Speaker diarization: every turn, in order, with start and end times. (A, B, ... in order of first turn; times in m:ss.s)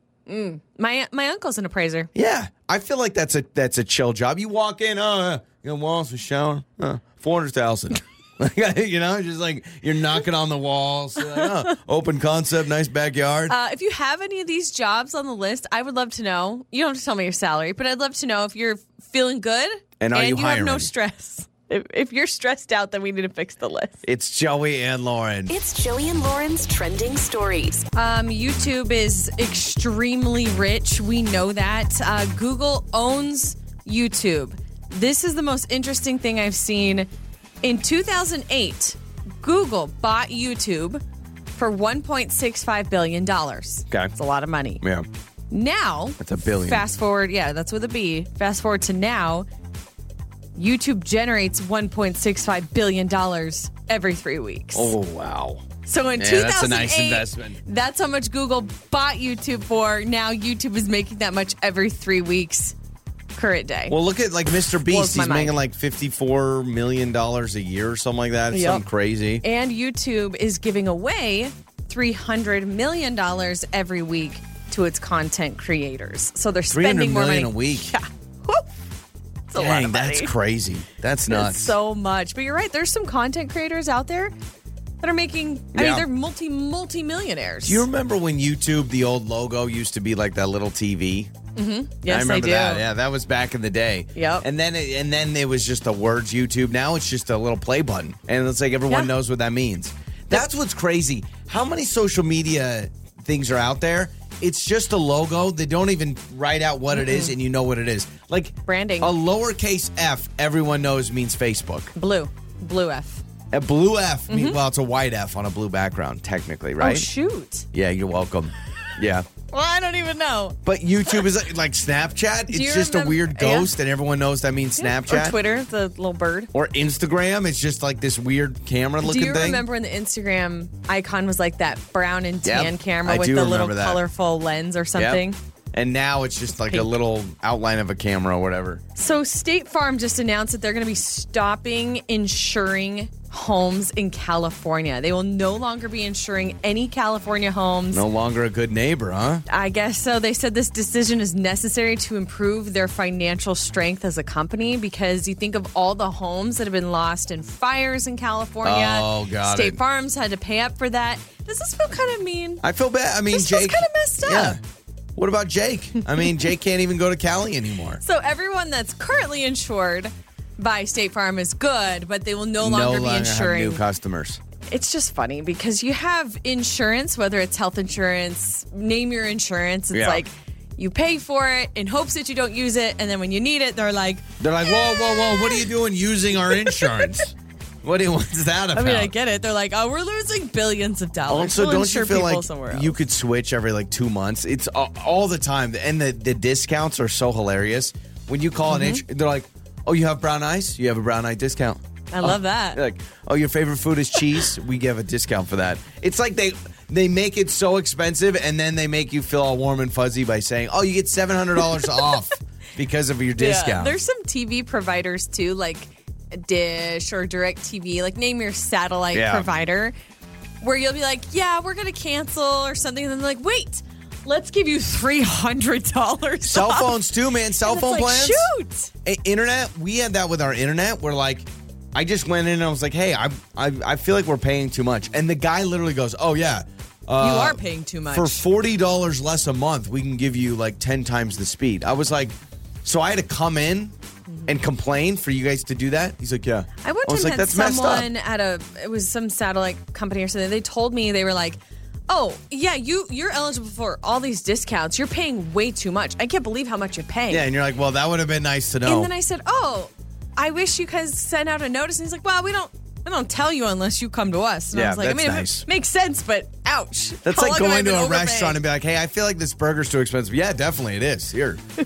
0:00.3-0:02.1 A
0:02.1-0:13.5 B
0:13.5-0:24.0 A
0:20.0-0:20.9 B
0:24.0-0:25.5 B
0:25.5-0:27.8 C
0:27.9-0:37.1 A
0:37.6-0:41.0 A
0:41.5-0:44.8 A
0:44.8-0:45.0 B
0:45.5-0:49.4 A
0:46.2-0:46.8 B
0:50.5-0:54.9 A
0:54.7-0:57.6 B
0:55.8-1:02.7 A
1:03.3-1:04.0 A
1:03.9-1:09.4 B
1:04.9-1:05.6 A
1:08.5-1:08.8 A
1:09.4-1:18.7 A
1:16.7-1:17.9 B
1:19.5-1:20.3 A
1:19.6-1:21.7 B
1:21.3-1:24.3 A
1:25.0-1:27.8 A
1:25.7-1:26.1 B
1:27.6-1:31.3 B
1:31.6-1:32.8 A
1:32.1-1:51.9 B
1:34.1-1:34.4 A
1:46.9-1:47.4 A
1:48.7-1:49.1 A
1:52.0-1:53.2 A
1:53.5-1:57.1 B
1:54.3-1:54.6 A
1:56.8-1:57.6 A
1:57.7-1:59.3 B
1:59.5-2:00.6 A
2:00.6-2:05.4 B
2:02.5-2:03.7 A
2:04.8-2:06.5 A
2:06.5-2:09.6 B
2:09.0-2:15.4 A
2:12.4-2:14.0 B
2:15.0-2:15.2 B
2:15.7-2:18.8 B
2:19.0-2:28.0 A
2:27.9-2:29.4 B
2:29.5-2:42.6 A
2:38.6-2:39.8 B
2:42.6-2:44.6 B
2:43.3-2:44.6 A
2:45.2-2:48.0 B
2:48.0-2:53.8 A
2:52.6-2:54.4 B
2:54.7-3:05.6 A
2:59.9-3:00.2 B
3:04.4-3:09.1 B
3:06.5-3:07.1 A
3:08.7-3:13.0 A
3:11.3-3:34.0 B
3:18.7-3:19.0 A
3:22.1-3:22.8 A
3:33.4-3:39.9 A
3:39.1-3:39.5 B
3:40.6-3:47.0 A
3:46.4-3:48.5 B
3:47.6-3:48.9 A
3:49.0-4:03.9 B
3:57.2-3:58.4 A
4:04.4-4:08.1 B
4:06.8-4:17.4 A
4:17.3-4:19.1 B
4:18.8-4:28.6 A
4:24.7-4:25.6 B
4:27.2-4:31.6 B